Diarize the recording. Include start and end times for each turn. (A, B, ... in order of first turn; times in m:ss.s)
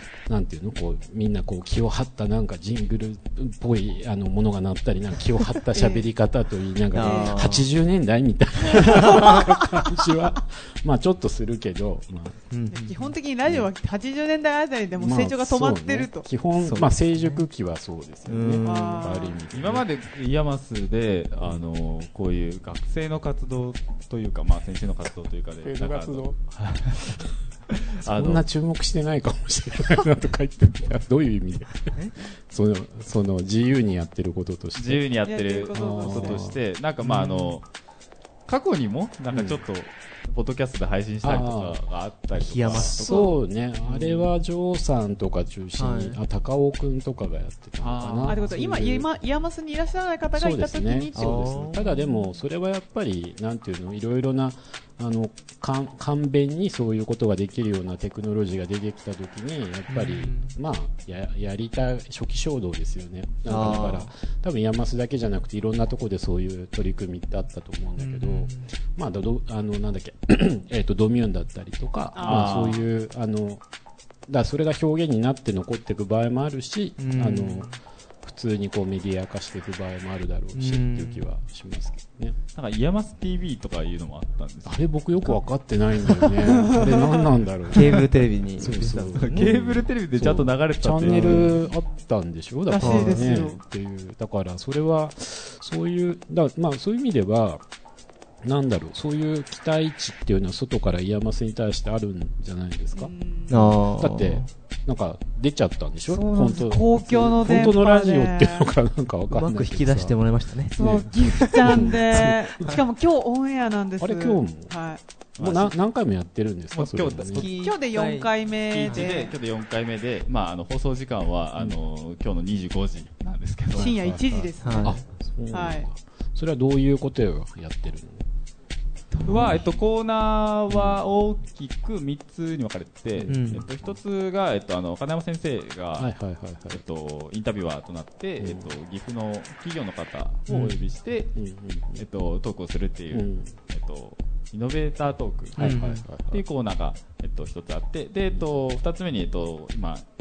0:00.3-0:12.4 A
0:05.7-0:06.1 B
0:06.9-0:07.7 C
0:07.0-0:07.5 B
0:08.7-0:10.0 B
0:08.9-0:09.3 C
0:12.5-0:13.1 C
0:12.7-0:16.2 B
0:13.4-0:13.7 A
0:15.0-0:19.8 A
0:16.6-0:17.4 C
0:18.3-0:19.1 C
0:18.6-0:19.4 B
0:19.5-0:28.4 D
0:25.6-0:26.4 A
0:28.0-0:35.0 A
0:34.8-0:37.6 D
0:35.2-0:36.4 B
0:35.7-0:36.6 A
0:37.0-0:37.5 C
0:38.5-0:43.0 D
0:39.3-0:39.6 A
0:41.2-0:41.8 A
0:42.3-0:43.3 C
0:42.7-0:49.1 A
0:43.0-0:43.3 B
0:43.9-0:44.3 D
0:45.8-0:46.2 C
0:47.8-0:48.4 D
0:48.3-0:51.6 B
0:50.4-1:13.6 A
0:51.1-0:51.9 C
0:59.9-1:00.5 C
1:03.5-1:04.1 C
1:08.0-1:08.7 C
1:12.1-1:12.8 B
1:12.2-1:12.8 D
1:14.3-1:22.4 A
1:17.0-1:17.8 C
1:20.5-1:21.3 C
1:22.5-1:24.8 D
1:24.6-1:37.6 A
1:26.4-1:27.3 B
1:27.7-1:29.5 C
1:29.1-1:31.5 D
1:31.0-1:31.5 C
1:32.7-1:33.6 B
1:32.8-1:33.3 C
1:38.4-1:50.2 A
1:42.9-1:43.7 B
1:43.5-1:44.5 C
1:46.1-1:48.7 B
1:49.3-1:50.8 C
1:50.7-1:55.0 B
1:50.8-1:52.7 A
1:54.0-1:54.7 A
1:55.4-1:55.7 D
1:55.4-1:57.5 A
1:56.7-1:57.5 D
1:57.3-1:58.3 C
1:57.6-1:59.3 B
1:58.7-2:04.1 D
1:58.8-1:59.1 C
2:03.7-2:08.2 A
2:03.8-2:05.0 B
2:04.6-2:05.0 C
2:05.5-2:05.9 B
2:09.1-2:09.5 B
2:09.2-2:16.1 D
2:10.7-2:11.0 A
2:13.2-2:13.9 A
2:13.3-2:13.6 C
2:16.0-2:16.8 A
2:16.7-2:21.4 D
2:18.4-2:18.7 A
2:20.5-2:20.7 C
2:20.5-2:20.8 A
2:21.3-2:22.0 A
2:22.0-2:30.0 D
2:23.1-2:23.5 A
2:25.6-2:26.4 A
2:25.6-2:26.0 C